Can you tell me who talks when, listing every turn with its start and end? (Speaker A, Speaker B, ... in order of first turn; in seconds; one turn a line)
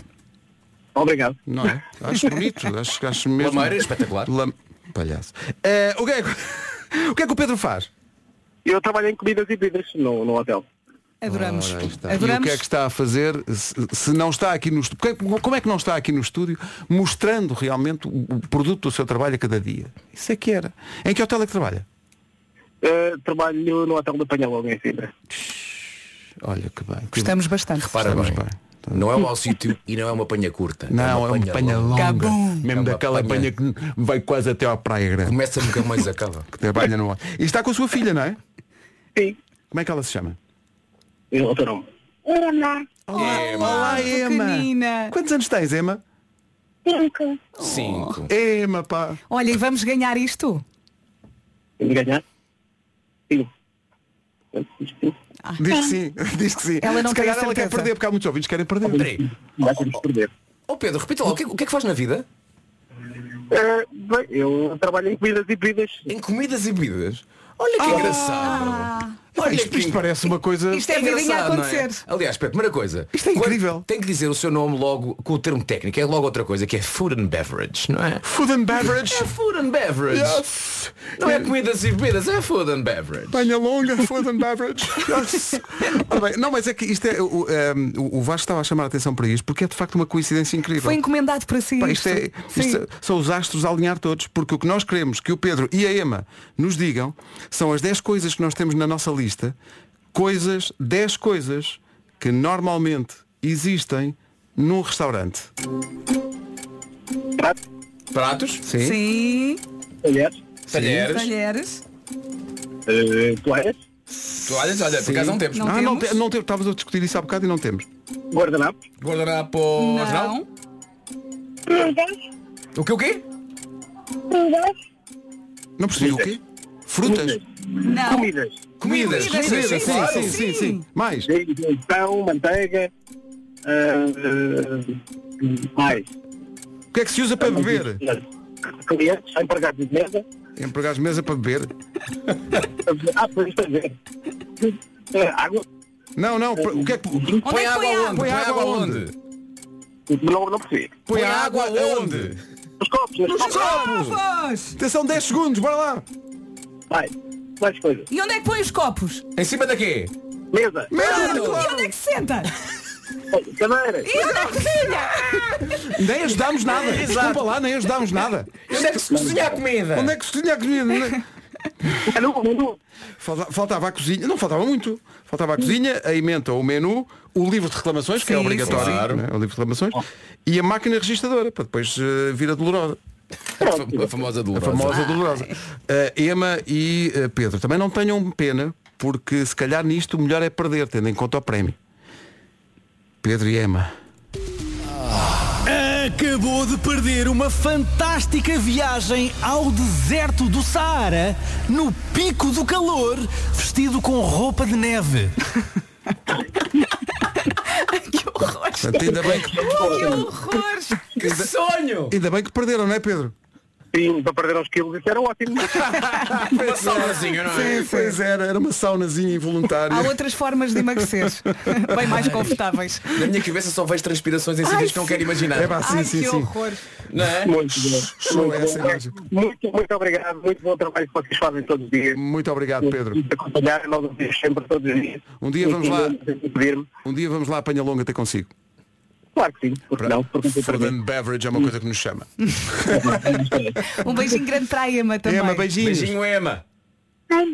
Speaker A: 0.9-1.4
Speaker B: 1.5-7.9
Speaker C: 3.4-4.3
Speaker A: 8.7-10.7
Speaker D: 11.2-12.6
Speaker B: 11.3-21.9
Speaker A: 22.8-25.1
Speaker B: 25.4-25.8
Speaker B: 26.4-27.4
Speaker D: 27.1-28.0
Speaker C: 27.8-33.5
Speaker B: 27.9-29.1
Speaker B: 30.9-35.4
Speaker D: 32.0-32.6
Speaker C: 35.2-36.5
Speaker B: 36.5-38.4
Speaker B: 39.7-40.4
Speaker A: 41.3-41.9
Speaker B: 43.1-46.0
Speaker D: 43.1-45.1
Speaker C: 43.1-44.0
Speaker C: 47.6-48.3
Speaker D: 47.6-48.2
Speaker B: 48.3-49.2
Speaker D: 49.3-50.6
Speaker A: 51.8-52.2
Speaker A: 54.5-55.1
Speaker D: 55.5-55.8
Speaker B: 55.6-59.1
Speaker D: 56.8-57.9
Speaker C: 58.9-59.2
Speaker A: 58.9-60.3
Speaker C: 60.7-62.3
Speaker A: 63.5-66.1
Speaker C: 66.1-70.0
Speaker B: 67.8-68.6
Speaker D: 67.9-69.2
Speaker B: 69.3-70.9
Speaker D: 70.7-72.0
Speaker C: 70.7-80.5
Speaker B: 73.1-73.9
Speaker B: 78.2-79.3
Speaker B: 80.1-81.5
Speaker C: 81.2-83.5
Speaker B: 83.3-91.0
Speaker D: 90.8-92.8
Speaker B: 91.8-99.5
Speaker B: 100.1-105.5
Speaker C: 108.1-108.7
Speaker B: 108.6-109.0
Speaker D: 108.8-109.6
Speaker A: 110.0-110.4
Speaker C: 110.7-111.3
Speaker B: 110.7-111.0
Speaker D: 111.0-111.8
Speaker A: 112.9-113.8
Speaker B: 114.2-117.9
Speaker C: 114.5-115.8
Speaker D: 115.5-116.2
Speaker A: 118.3-118.8
Speaker C: 119.0-120.4
Speaker D: 119.8-120.5
Speaker A: 121.7-122.1
Speaker C: 122.8-123.2
Speaker A: 124.3-124.7
Speaker B: 125.8-127.4
Speaker A: 126.0-126.3
Speaker A: 127.0-128.7
Speaker D: 127.8-128.3
Speaker C: 128.8-130.4
Speaker B: 128.8-131.3
Speaker D: 128.8-130.8
Speaker A: 131.3-132.9
Speaker A: 133.7-136.1
Speaker B: 136.9-138.0
Speaker A: 137.4-138.2
Speaker A: 138.8-140.2
Speaker B: 140.6-141.7
Speaker A: 142.8-143.9
Speaker A: 144.6-145.7
Speaker B: 146.2-147.4
Speaker A: 146.7-147.4
Speaker D: 147.4-148.3
Speaker C: 147.4-149.1
Speaker B: 148.1-149.1
Speaker A: 150.1-151.0
Speaker B: 151.1-152.4
Speaker C: 151.1-152.4
Speaker A: 152.8-153.7
Speaker B: 153.3-154.2
Speaker D: 153.4-154.7
Speaker B: 154.8-156.0
Speaker A: 156.9-158.1
Speaker D: 158.1-159.2
Speaker C: 159.3-160.1
Speaker A: 160.5-160.9
Speaker B: 160.9-161.9
Speaker D: 160.9-162.5
Speaker C: 161.0-161.7
Speaker A: 163.3-164.1
Speaker D: 164.1-165.8
Speaker B: 165.8-169.0
Speaker C: 166.7-167.5
Speaker C: 168.7-170.2
Speaker B: 169.9-171.2
Speaker A: 172.1-172.8
Speaker B: 173.2-183.0
Speaker D: 178.2-179.0
Speaker C: 178.6-179.2
Speaker C: 183.6-185.1
Speaker A: 183.6-184.0
Speaker B: 184.6-191.8
Speaker D: 184.9-185.5
Speaker B: 193.2-193.9
Speaker E: 195.6-205.3
Speaker D: 207.4-211.1
Speaker B: 208.8-210.2
Speaker A: 209.2-210.3
Speaker B: 211.2-211.5
Speaker C: 211.2-212.2
Speaker B: 212.1-213.3
Speaker A: 213.9-215.9
Speaker B: 215.8-220.1
Speaker C: 216.4-217.9
Speaker D: 217.4-218.2
Speaker D: 219.9-223.3
Speaker C: 223.1-225.8
Speaker D: 224.6-226.8
Speaker B: 225.5-226.5
Speaker C: 227.1-227.6
Speaker A: 227.4-232.2
Speaker B: 228.0-229.2
Speaker B: 232.1-233.2
Speaker A: 232.9-236.9
Speaker B: 235.4-236.2
Speaker B: 237.0-238.5
Speaker A: 239.3-240.9
Speaker B: 240.0-243.4
Speaker A: 242.9-243.8
Speaker D: 243.9-245.7
Speaker B: 245.2-246.2
Speaker C: 245.8-246.6